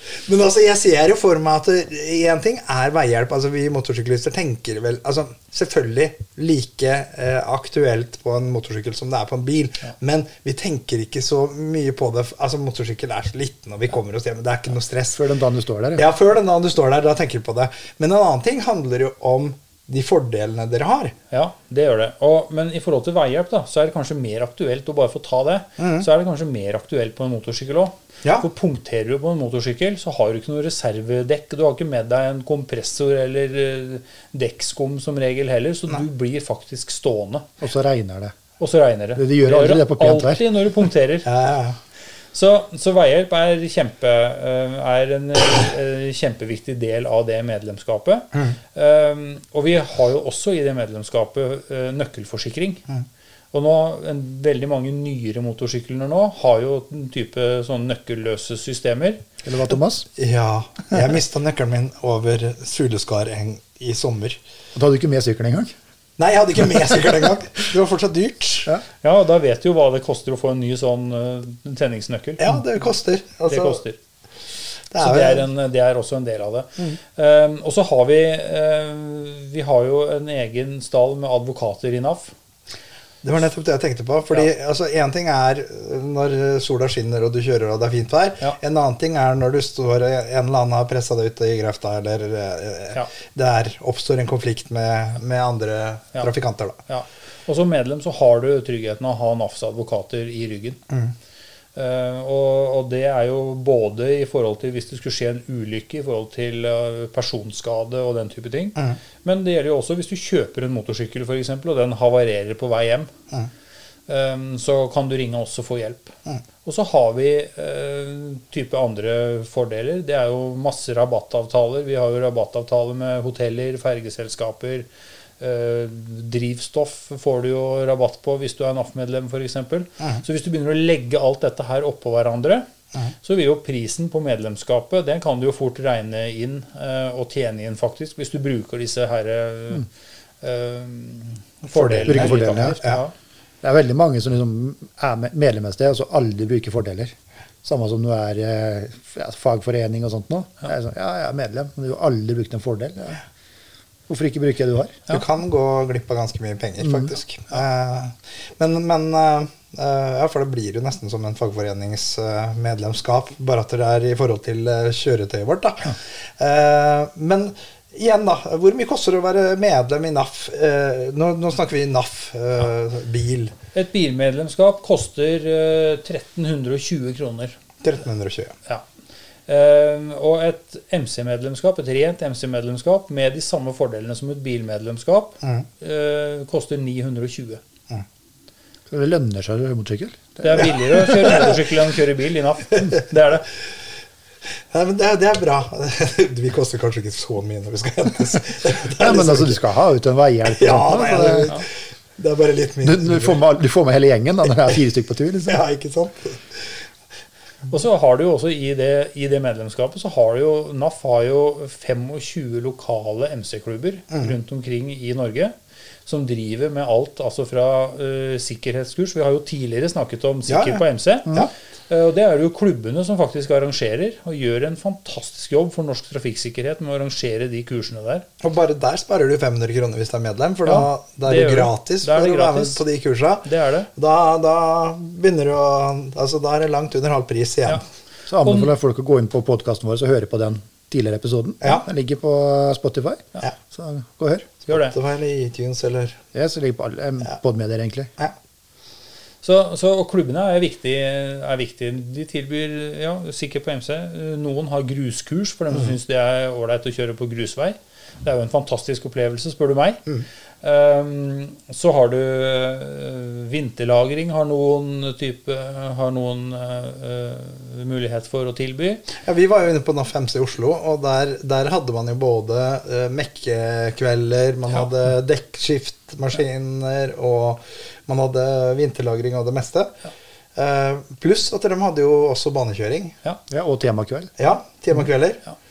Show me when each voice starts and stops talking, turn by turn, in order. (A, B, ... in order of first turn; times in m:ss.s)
0:00.2-0:15.2 A
0:15.1-0:16.0 B
0:16.0-0:21.2 A
0:21.3-0:37.5 C
0:25.8-0:26.1 A
0:37.6-0:38.4 B
0:38.6-0:41.3 C
0:39.2-0:40.4 B
0:41.2-0:41.8 A
0:42.3-0:52.8 C
0:53.5-0:59.2 C
0:59.4-1:00.1 B
1:00.2-1:04.4 A
1:04.8-1:05.7 B
1:06.2-1:08.7 A
1:09.0-1:12.4 C
1:12.4-1:13.8 A
1:13.5-1:14.0 C
1:14.9-1:15.4 A
1:15.0-1:22.3 C
1:23.2-1:36.8 A
1:36.9-1:40.8 C
1:41.8-1:53.1 C
1:54.1-2:04.9 C
2:05.4-2:12.7 C
2:13.2-2:19.9 C
2:20.4-2:23.1 C
2:21.7-2:23.0 A
2:22.1-2:22.8 B
2:23.6-2:33.2 B
2:34.1-2:35.0 B
2:35.1-2:53.5 A
2:53.7-2:57.6 C
2:57.8-2:58.6 A
2:59.5-3:07.6 C
3:08.9-3:11.5 B
3:10.4-3:13.5 C
3:14.7-3:19.6 A
3:19.0-3:21.5 B
3:20.5-3:21.7 A
3:22.2-3:23.4 A
3:22.8-3:25.6 B
3:25.5-3:26.8 A
3:27.7-3:35.5 C
3:36.1-3:48.3 C
3:40.5-3:41.5 A
3:48.4-3:57.8 A
3:50.6-3:52.8 C
3:53.4-3:53.9 C
3:58.3-4:04.5 B
3:58.4-3:58.7 C
4:04.7-4:05.0 C
4:04.7-4:06.2 A
4:06.3-4:08.1 B
4:09.4-4:20.1 C
4:20.6-4:29.1 C
4:29.2-4:39.9 A
4:40.6-4:43.2 A
4:43.5-4:44.3 B
4:44.4-4:45.4 A